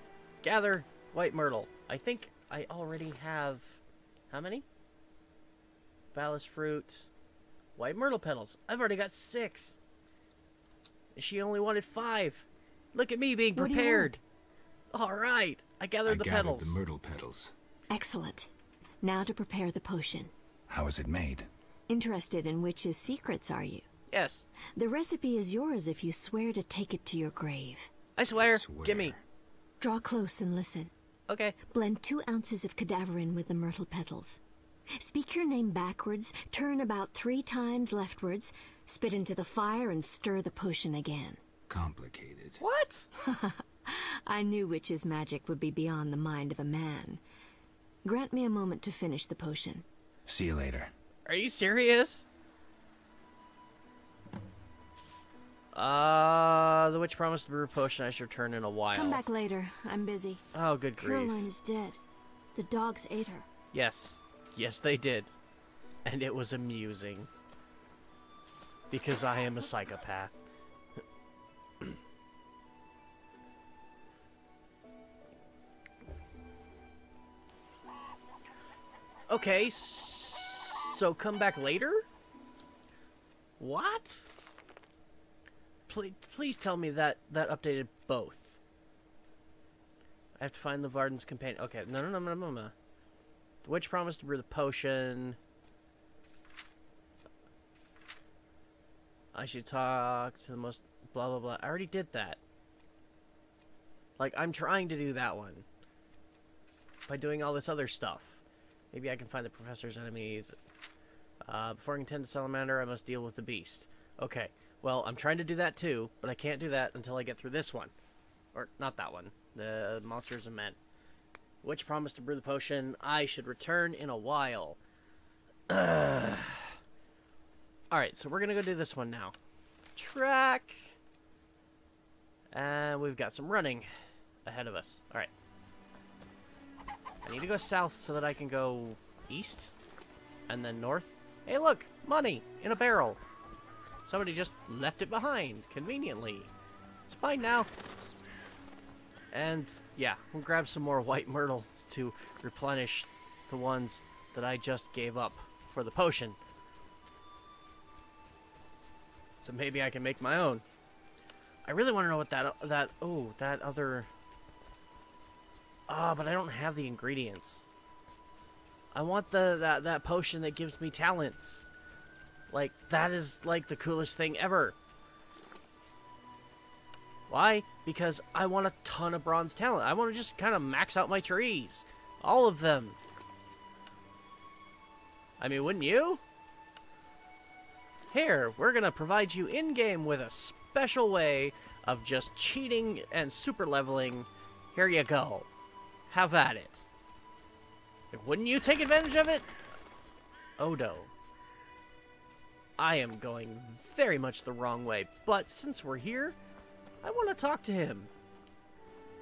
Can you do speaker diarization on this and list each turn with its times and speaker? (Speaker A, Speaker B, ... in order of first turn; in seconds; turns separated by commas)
Speaker A: 0.4-4.7, Speaker A: 6.1-7.1, Speaker A: 7.8-9.8, Speaker A: 11.2-14.2, Speaker B: 13.5-14.2, Speaker A: 14.9-16.8, Speaker C: 16.1-17.5, Speaker B: 17.9-18.5, Speaker B: 19.0-20.3, Speaker C: 20.7-21.5, Speaker B: 21.9-23.9, Speaker A: 24.1-24.5, Speaker B: 24.8-27.9, Speaker A: 28.2-29.2, Speaker C: 28.3-29.2, Speaker B: 29.8-30.9, Speaker A: 31.3-31.6, Speaker B: 31.7-34.4, Speaker B: 35.0-41.4, Speaker C: 41.7-42.6, Speaker A: 42.6-43.1, Speaker B: 43.2-47.2, Speaker B: 48.0-49.9, Speaker C: 50.3-50.9, Speaker A: 51.3-52.3, Speaker A: 55.7-59.2, Speaker B: 58.9-60.4, Speaker A: 60.5-61.5, Speaker B: 61.0-62.0, Speaker B: 62.5-63.5, Speaker A: 63.7-65.3, Speaker A: 66.0-67.3, Speaker A: 68.9-70.4, Speaker A: 79.3-82.0, Speaker A: 83.6-84.3, Speaker A: 85.9-88.6, Speaker A: 90.4-92.7, Speaker A: 93.6-95.4, Speaker A: 99.3-102.4, Speaker A: 104.2-105.7, Speaker A: 107.1-110.5, Speaker A: 111.5-117.9, Speaker A: 118.5-120.8, Speaker A: 121.6-124.8, Speaker A: 125.7-126.7, Speaker A: 127.9-129.3, Speaker A: 130.0-131.0, Speaker A: 132.5-133.9, Speaker A: 134.4-135.3, Speaker A: 137.2-139.7, Speaker A: 140.5-143.2, Speaker A: 144.1-146.5, Speaker A: 147.1-147.7, Speaker A: 149.3-156.4, Speaker A: 159.4-160.6, Speaker A: 161.7-164.1, Speaker A: 165.9-167.7, Speaker A: 168.9-171.7, Speaker A: 172.5-174.8, Speaker A: 177.3-183.0, Speaker A: 185.4-186.2, Speaker A: 188.1-195.5, Speaker A: 196.1-196.8, Speaker A: 198.1-199.5, Speaker A: 200.6-201.1, Speaker A: 202.8-206.4, Speaker A: 207.0-208.1